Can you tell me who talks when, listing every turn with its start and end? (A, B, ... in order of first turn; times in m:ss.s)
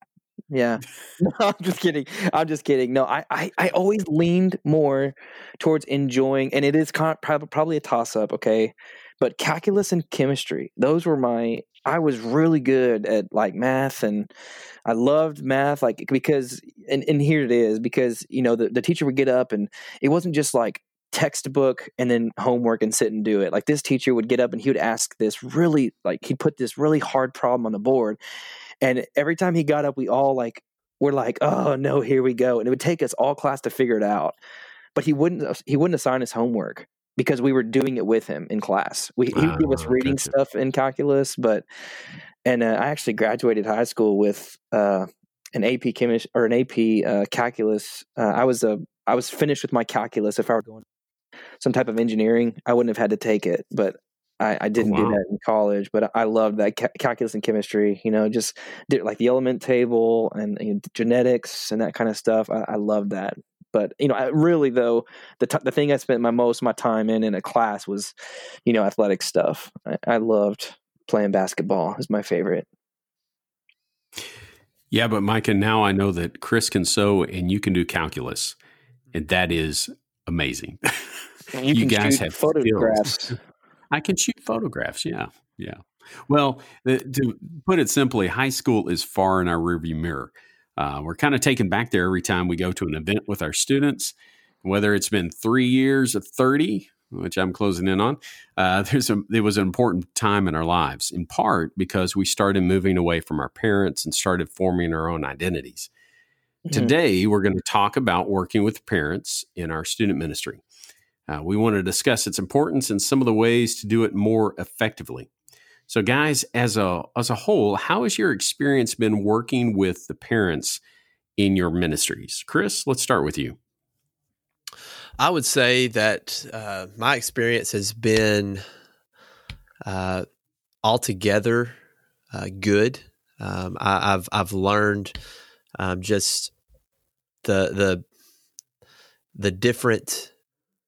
0:00.5-0:14.3 A
0:14.8-0:28.2 A
0:28.8-0:34.4 A
0:34.9-0:41.6 A
0:39.3-0:40.3 B
0:42.4-0:50.8 A
0:51.6-1:08.1 A
0:54.8-0:55.2 B
1:08.6-1:12.6 A
1:14.9-1:18.6 B
1:19.1-1:21.2 B
1:21.5-1:23.4 A
1:21.7-1:23.3 B
1:23.9-1:45.9 B
1:46.7-1:46.9 A
1:46.7-1:50.6 B
1:51.3-1:55.3 B
1:55.9-2:00.8 B
2:01.4-2:03.6 B
2:05.2-2:08.6 C
2:09.9-2:10.2 C
2:10.8-2:11.7 C
2:12.3-2:15.1 C
2:15.8-2:16.5 C
2:17.4-2:18.0 C
2:19.3-2:20.3 C